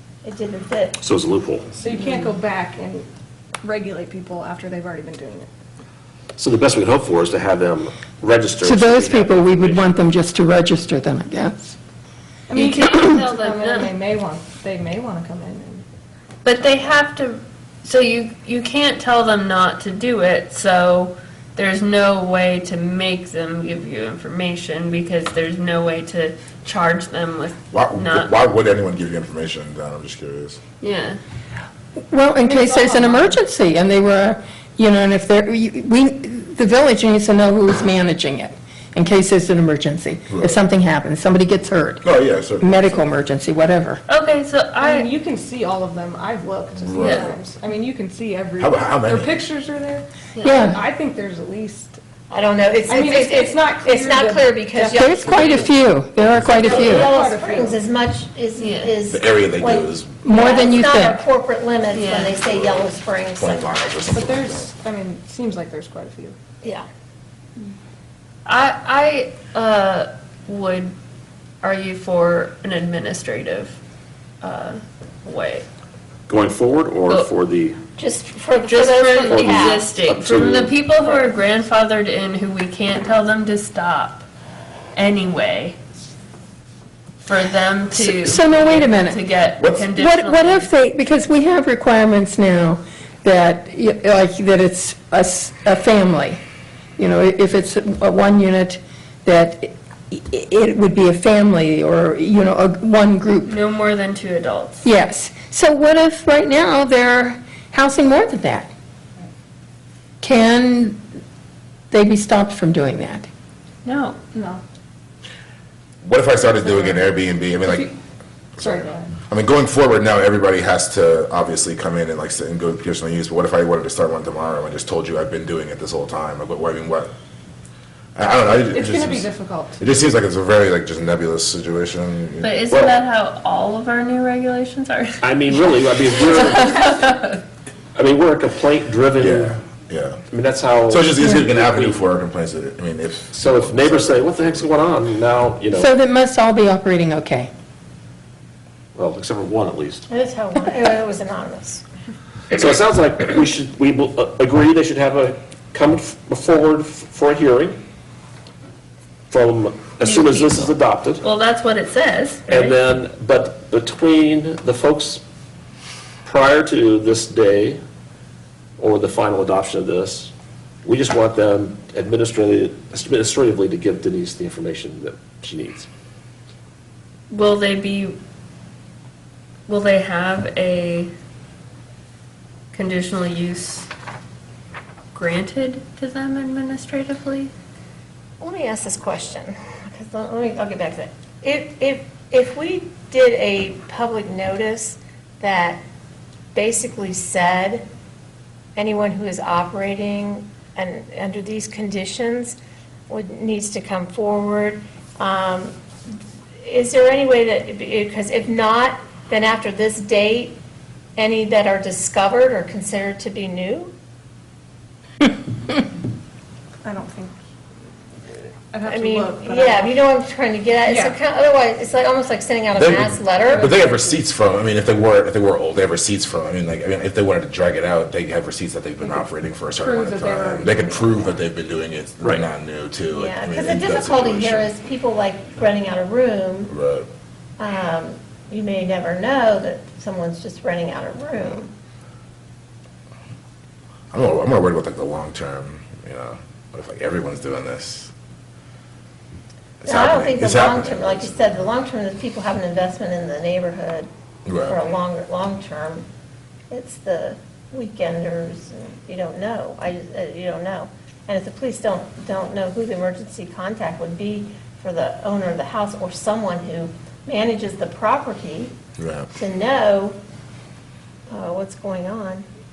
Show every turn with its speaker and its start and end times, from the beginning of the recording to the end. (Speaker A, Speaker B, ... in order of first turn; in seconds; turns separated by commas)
Speaker A: 0.2-1.0, Speaker B: 1.0-1.7, Speaker C: 1.7-3.1, Speaker C: 3.6-5.5, Speaker B: 6.4-9.9, Speaker D: 8.6-11.8, Speaker C: 12.5-15.8, Speaker E: 12.5-13.9, Speaker D: 12.9-13.2, Speaker E: 16.4-28.3, Speaker C: 16.6-16.9, Speaker F: 27.7-30.6, Speaker E: 30.8-31.2, Speaker D: 32.1-44.0, Speaker C: 32.5-33.2, Speaker F: 40.3-40.6, Speaker F: 42.0-43.0, Speaker E: 44.1-45.1, Speaker C: 44.8-52.0, Speaker F: 46.9-47.3, Speaker E: 47.0-47.3, Speaker F: 48.6-49.4, Speaker E: 50.3-50.8, Speaker D: 50.4-50.8, Speaker A: 52.3-55.7, Speaker C: 52.9-55.7, Speaker D: 54.9-57.1, Speaker C: 56.5-57.8, Speaker A: 56.6-63.7, Speaker E: 58.6-59.0, Speaker F: 59.1-60.1, Speaker D: 60.2-61.2, Speaker E: 61.9-62.4, Speaker F: 62.4-64.7, Speaker C: 64.1-66.3, Speaker E: 68.5-70.9, Speaker E: 71.6-73.8, Speaker E: 74.4-75.7, Speaker B: 76.3-77.8, Speaker A: 78.0-79.9, Speaker E: 78.6-84.2, Speaker B: 79.2-80.8, Speaker A: 81.0-81.3, Speaker E: 84.9-85.8, Speaker E: 87.2-90.7, Speaker D: 87.9-89.2, Speaker F: 89.6-89.9, Speaker D: 89.9-96.4, Speaker D: 97.0-103.6, Speaker E: 103.4-104.9, Speaker D: 104.8-108.7, Speaker D: 110.2-111.0, Speaker D: 111.9-113.3, Speaker E: 113.8-114.2, Speaker C: 114.3-114.6, Speaker F: 116.0-117.9, Speaker C: 116.6-117.9, Speaker C: 118.6-119.1, Speaker F: 118.6-127.1, Speaker F: 128.1-132.6, Speaker C: 128.7-129.9, Speaker E: 132.4-137.4, Speaker B: 132.7-132.9, Speaker B: 135.2-137.1, Speaker B: 137.9-139.6, Speaker F: 139.2-140.2, Speaker B: 140.3-142.0, Speaker F: 140.9-144.7, Speaker B: 143.3-145.9, Speaker D: 145.7-147.5, Speaker B: 148.9-150.1, Speaker A: 150.1-151.8, Speaker B: 152.5-157.8, Speaker B: 159.3-161.2, Speaker E: 160.0-160.7, Speaker E: 161.2-162.8, Speaker B: 162.5-165.2, Speaker B: 166.2-167.8, Speaker B: 168.8-170.3, Speaker B: 170.8-175.9, Speaker E: 177.3-178.2, Speaker E: 179.7-181.1, Speaker E: 182.7-183.9, Speaker E: 185.1-187.5, Speaker A: 188.4-195.8, Speaker A: 196.5-197.8, Speaker A: 198.8-202.6, Speaker A: 203.1-205.7, Speaker A: 206.6-210.6, Speaker A: 211.2-213.9, Speaker C: 216.8-217.3, Speaker C: 218.7-219.9, Speaker A: 218.8-224.2, Speaker C: 220.8-221.2, Speaker F: 222.7-234.7, Speaker C: 229.0-231.2, Speaker B: 232.2-232.5, Speaker A: 233.1-236.7, Speaker F: 236.7-237.1, Speaker A: 237.6-241.7, Speaker F: 244.1-248.1, Speaker F: 249.8-251.6, Speaker A: 249.8-254.1, Speaker F: 254.4-254.8, Speaker A: 254.6-256.1, Speaker A: 256.7-268.7, Speaker F: 269.0-269.3, Speaker A: 269.3-270.1, Speaker A: 271.3-272.4